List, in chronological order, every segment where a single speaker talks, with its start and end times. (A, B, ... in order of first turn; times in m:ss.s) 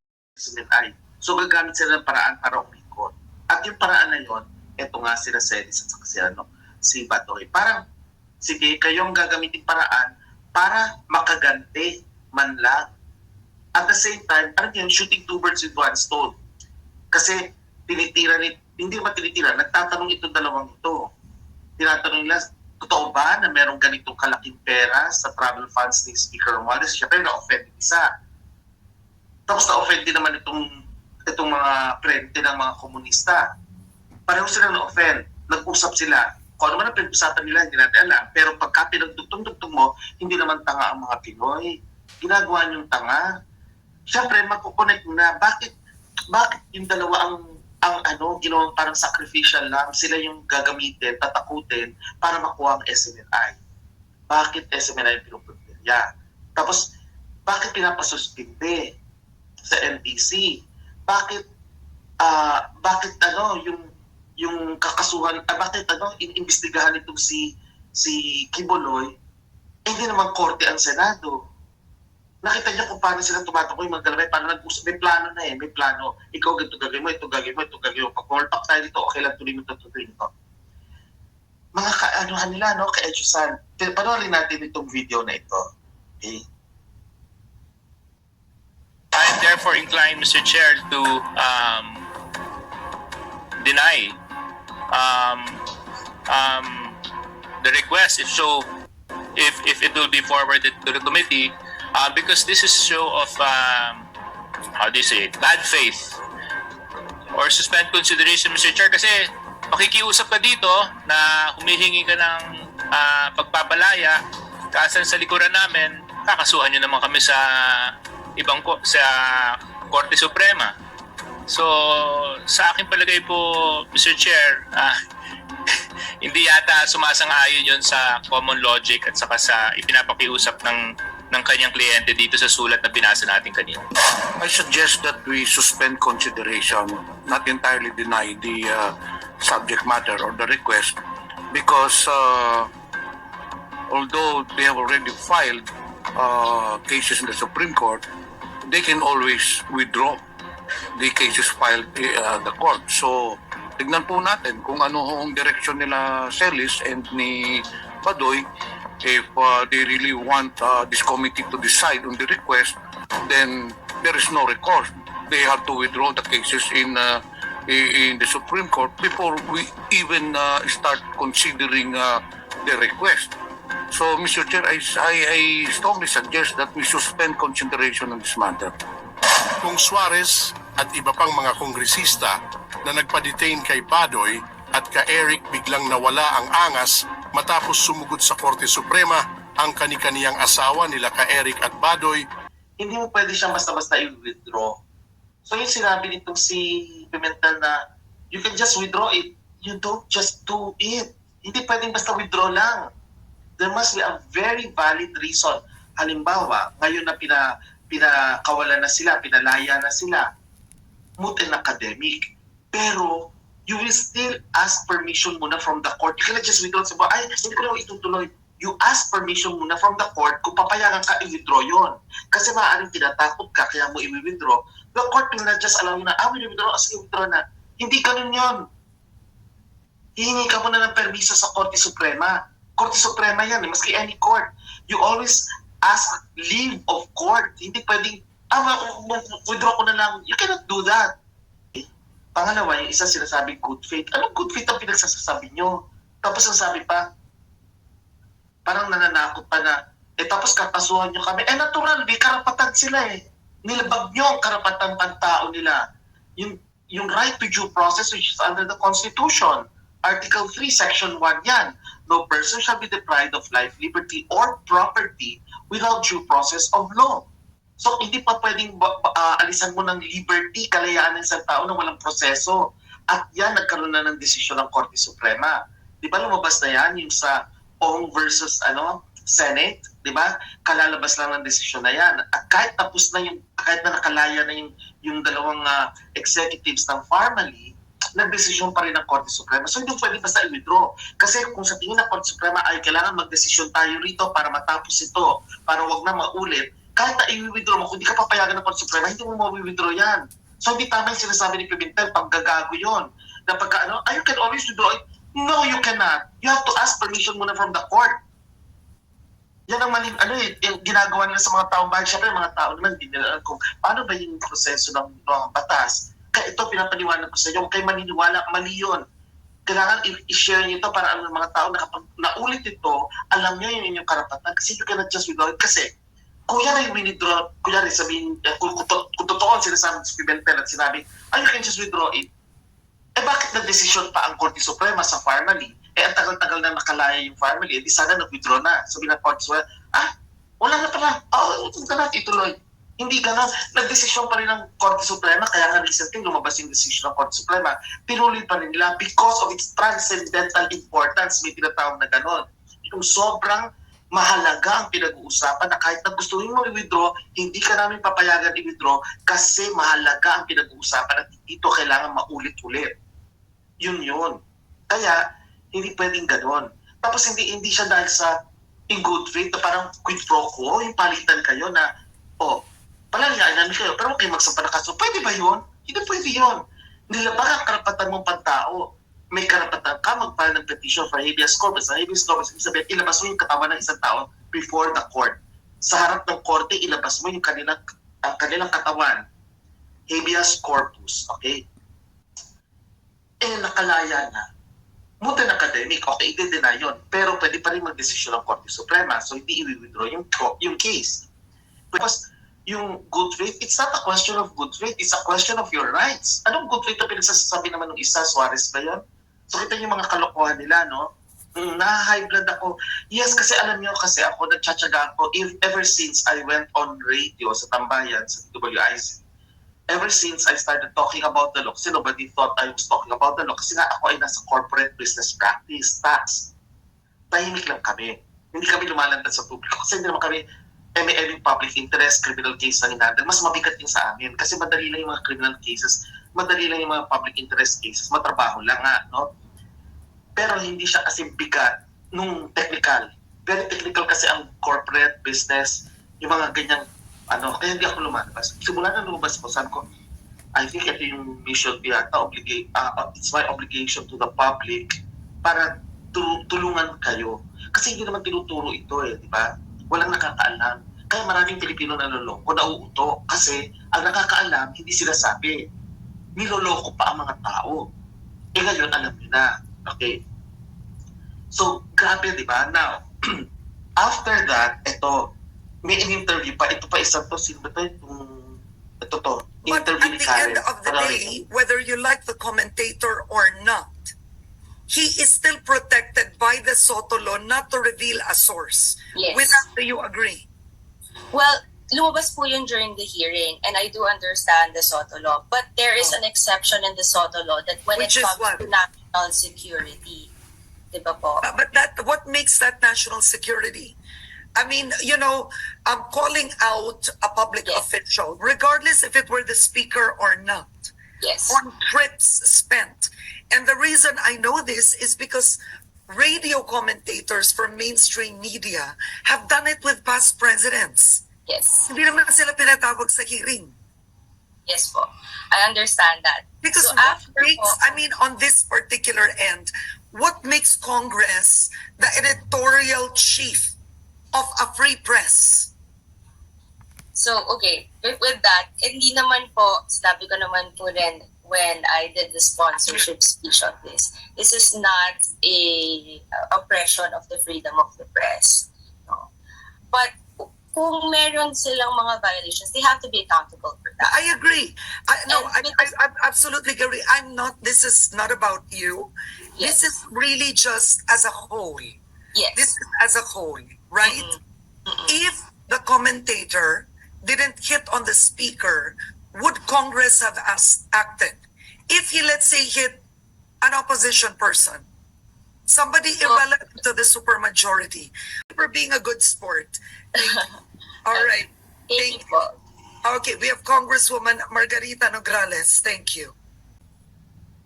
0:00.4-0:07.8 A
0:08.4-0:12.8 A
0:13.7-0:16.3 A
0:17.1-0:21.1 A
0:21.8-0:28.0 A
0:29.5-0:30.7 A
0:31.3-0:33.4 A
0:34.3-0:43.2 A
0:44.1-0:45.7 A
0:46.3-0:53.6 A
0:54.3-0:56.0 A
0:56.6-0:56.8 A
0:57.5-0:58.9 A
0:59.6-1:00.6 A
1:01.1-1:01.4 A
1:02.2-1:03.8 A
1:04.4-1:09.1 A
1:09.9-1:11.4 A
1:12.4-1:20.3 A
1:21.7-1:25.6 A
1:29.1-1:32.0 B
1:33.6-1:34.2 B
1:34.9-1:35.6 B
1:36.3-1:37.0 B
1:37.6-1:38.7 B
1:39.4-1:44.0 B
1:44.8-1:46.1 B
1:47.3-1:54.2 B
1:54.7-2:00.7 B
2:01.5-2:04.9 B
2:06.2-2:13.8 B
2:14.4-2:21.0 C
2:21.5-2:22.7 C
2:23.9-2:28.1 C
2:28.6-2:30.2 C
2:31.0-2:38.5 C
2:39.0-2:53.3 C
2:53.9-2:58.8 C
2:59.6-3:12.2 D
3:12.8-3:14.8 A
3:15.4-3:17.8 A
3:18.3-3:22.8 A
3:23.6-3:30.3 A
3:31.2-3:48.6 A
3:50.2-4:01.1 A
4:01.7-4:07.0 A
4:08.6-4:15.8 A
4:16.4-4:27.3 A
4:27.8-5:08.1 A
5:09.7-5:19.0 A
5:19.6-5:25.9 A
5:26.5-5:32.3 A
5:33.2-5:40.1 A
5:40.6-6:02.9 A
6:03.8-6:04.4 A
6:04.9-6:05.2 A
6:05.7-6:08.3 A
6:08.9-6:11.9 A
6:12.4-6:29.2 A
6:30.1-6:31.6 A
6:33.4-6:34.4 A
6:35.2-6:41.2 A
6:41.9-6:59.2 A
6:59.9-7:06.5 A
7:07.3-7:10.4 A
7:11.0-7:19.3 A
7:20.4-7:29.8 A
7:30.6-7:45.6 A
7:46.4-7:47.8 A
7:48.5-7:50.2 A
7:51.5-7:53.4 A
7:54.0-7:55.3 A
7:55.8-8:01.3 A
7:59.6-8:04.1 E
8:04.9-8:10.5 E
8:09.1-8:09.6 F
8:11.3-8:20.3 F
8:17.9-8:18.7 E
8:20.9-8:21.4 F
8:21.4-8:24.0 E
8:24.6-8:30.9 E
8:31.2-8:31.6 F
8:31.5-8:41.2 E
8:41.5-8:41.9 F
8:41.9-8:43.8 E
8:44.6-8:48.0 F
8:46.6-8:53.7 E
8:54.3-8:55.7 E
8:57.1-9:09.3 F
9:09.9-9:14.3 F
9:14.0-9:22.0 E
9:15.3-9:15.9 F
9:19.6-9:19.8 F
9:22.3-9:22.7 F
9:22.5-9:24.4 E
9:24.0-9:25.0 F
9:25.0-9:33.0 E
9:33.6-9:34.9 E
9:35.6-9:40.4 E
9:40.2-9:40.5 F
9:41.0-9:42.2 E
9:41.1-9:41.4 F
9:41.9-9:42.6 F
9:43.0-9:46.3 E